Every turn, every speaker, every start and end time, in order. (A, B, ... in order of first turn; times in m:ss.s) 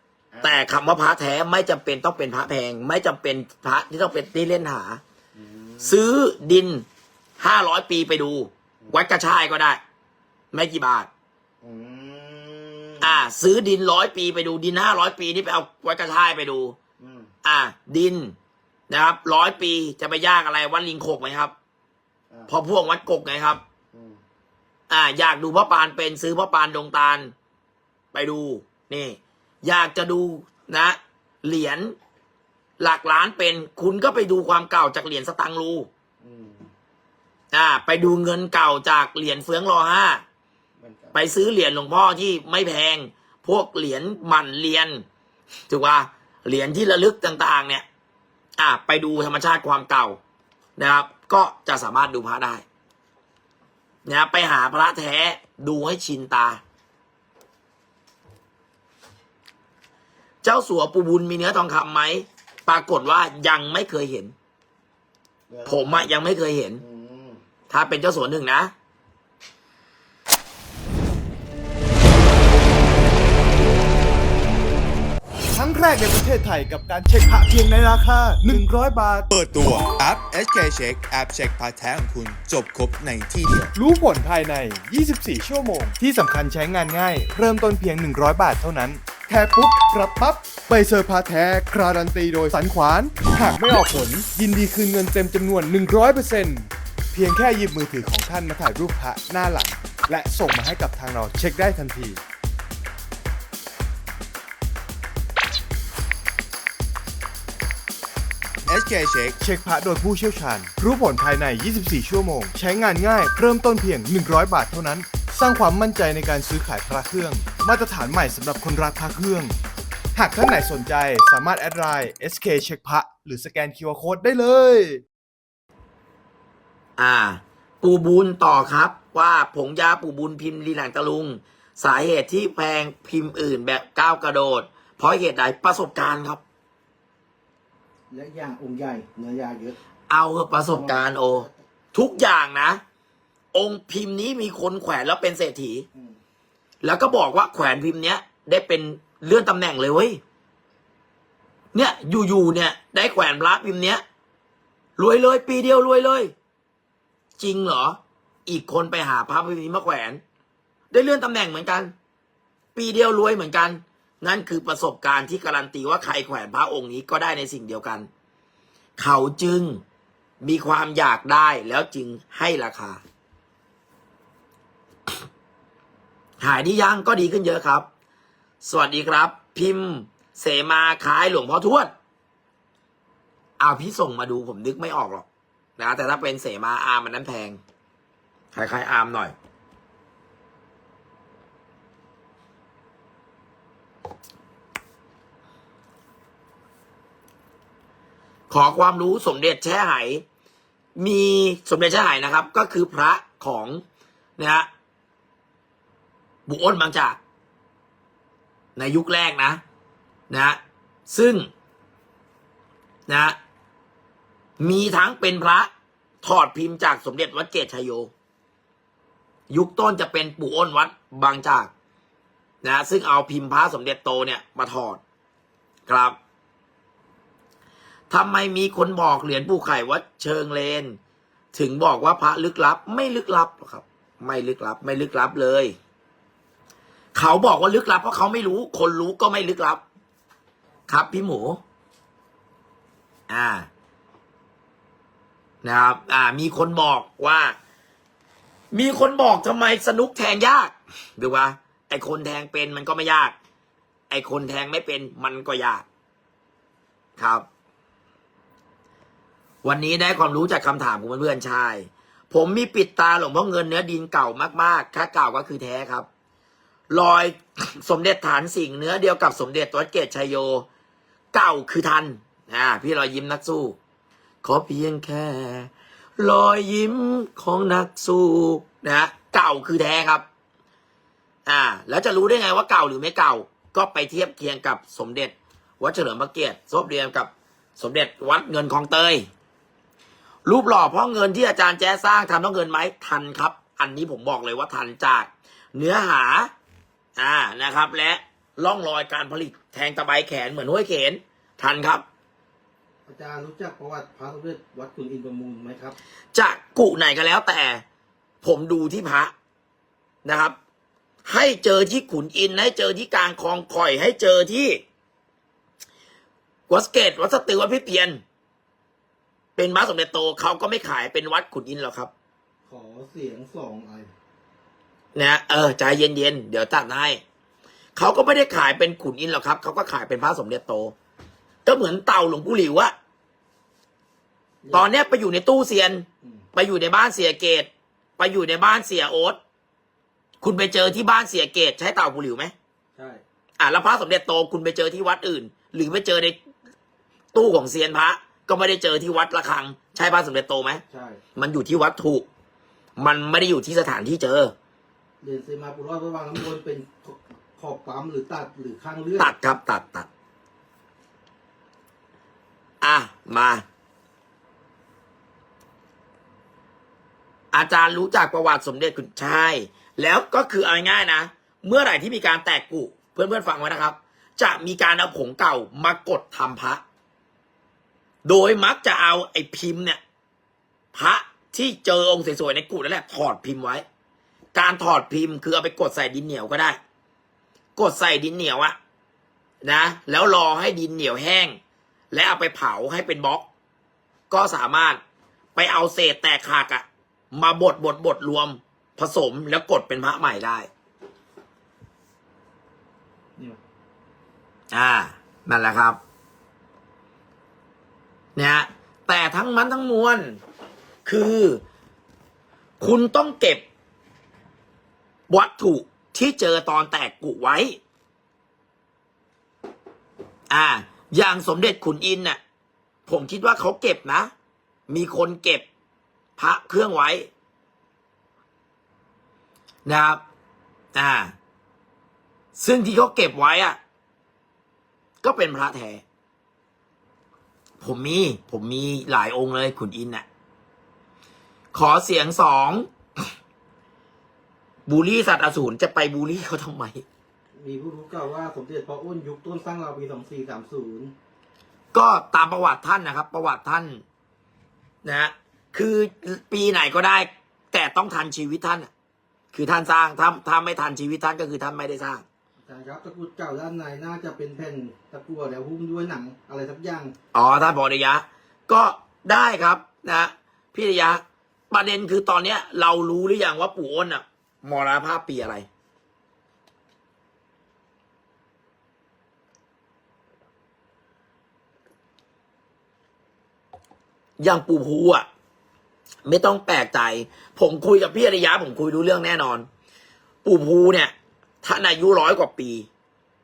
0:00.3-0:00.7 A
0:00.4-0:05.0 B
0:05.3-0:06.0 A
0:05.8-0:06.8 B
0:07.4-0:09.8 B
0:10.5-0:11.1 B
0:11.6-0:13.2 A
0:13.0-0:16.7 B
0:17.0-0:17.3 A
0:17.4-0:18.3 B
0:18.9-0:21.5 B
0:22.5-0:23.6 B
0:23.9-0:24.2 A
0:24.9-0:27.3 B
0:28.1-0:31.9 B
0:32.8-0:35.9 B
0:36.2-0:36.7 A
0:37.5-0:40.2 B
0:40.8-0:41.2 A
0:41.1-0:45.0 B
0:45.7-0:47.8 B
0:48.6-0:50.2 B
0:50.8-0:52.6 B
0:54.0-0:56.6 B
1:00.4-1:04.3 B
1:05.5-1:06.1 A
1:05.6-1:06.8 B
1:06.8-1:07.4 A
1:07.7-1:08.7 B
1:15.5-1:19.3 C
1:19.3-1:23.7 D
1:23.7-1:42.2 C
1:48.6-1:49.4 D
1:49.4-1:59.6 C
2:00.1-2:05.0 C
2:07.0-2:16.4 B
2:18.1-2:19.8 E
2:20.1-2:22.8 B
2:20.7-2:21.5 E
2:23.5-2:25.8 B
2:26.8-2:30.2 B
2:31.7-2:34.0 B
2:35.0-2:36.3 B
2:37.4-2:40.2 B
2:40.9-2:41.9 B
2:42.7-2:48.1 B
2:49.0-2:49.8 B
2:50.4-2:53.0 B
2:56.4-2:57.9 B
2:58.6-3:01.9 B
3:03.6-3:05.2 B
3:05.8-3:07.6 B
3:08.5-3:09.3 B
3:18.5-3:20.2 B
3:21.0-3:23.8 B
3:24.4-3:24.7 B
3:26.5-3:27.2 B
3:28.8-3:29.6 B
3:30.3-3:31.5 B
3:33.1-3:33.4 B
3:34.6-3:35.7 B
3:36.2-3:38.1 B
3:39.5-3:41.7 B
3:42.6-3:45.0 B
3:45.9-3:46.2 B
3:48.1-3:51.0 B
3:51.5-3:55.7 B
3:57.1-3:59.8 B
4:00.9-4:01.6 B
4:03.3-4:03.7 B
4:05.6-4:07.5 B
4:08.7-4:13.3 B
4:14.1-4:15.8 B
4:17.2-4:17.4 B
4:19.6-4:26.0 B
4:26.9-4:30.6 B
4:31.3-4:33.8 B
4:34.4-4:40.2 B
4:41.4-4:49.3 B
4:50.4-4:56.5 B
4:57.2-5:02.0 B
5:03.1-5:06.0 E
5:06.3-5:07.8 B
5:08.4-5:09.3 B
5:10.2-5:10.6 B
5:11.2-5:14.8 B
5:16.7-5:18.2 B
5:19.6-5:22.1 B
5:22.7-5:24.1 E
5:25.1-5:27.2 B
5:28.0-5:30.9 B
5:31.6-5:32.9 B
5:34.7-5:39.4 B
5:40.4-5:42.5 B
5:43.0-5:43.2 E
5:43.6-5:46.4 B
5:47.3-5:50.8 B
5:50.9-5:51.2 E
5:51.4-5:52.2 B
5:53.0-5:54.5 B
5:55.2-5:59.3 E
5:59.2-6:00.1 B
6:02.8-6:03.6 B
6:07.5-6:16.8 B
6:18.2-6:20.0 B
6:20.9-6:23.8 B
6:24.5-6:26.8 B
6:27.8-6:28.8 B
6:29.6-6:31.6 B
6:32.1-6:33.4 B
6:34.3-6:35.0 B
6:35.6-6:40.7 B
6:44.7-6:46.0 B
6:48.4-6:50.4 B
6:51.0-6:51.6 B
6:52.8-6:53.6 B
6:55.3-6:57.8 B
7:00.5-7:02.4 B
7:03.1-7:04.3 B
7:04.9-7:05.6 B
7:06.4-7:07.3 B
7:09.8-7:10.2 B
7:10.9-7:11.3 B
7:12.6-7:13.8 B
7:15.2-7:16.0 B
7:17.8-7:20.2 B
7:21.7-7:22.9 B
7:24.9-7:27.0 B
7:27.6-7:31.1 E
7:31.9-7:34.0 B
7:35.0-7:38.9 B
7:39.5-7:42.2 B
7:42.6-7:47.1 E
7:47.3-7:55.6 B
8:04.4-8:05.2 B
8:06.2-8:09.7 B
8:10.4-8:12.9 B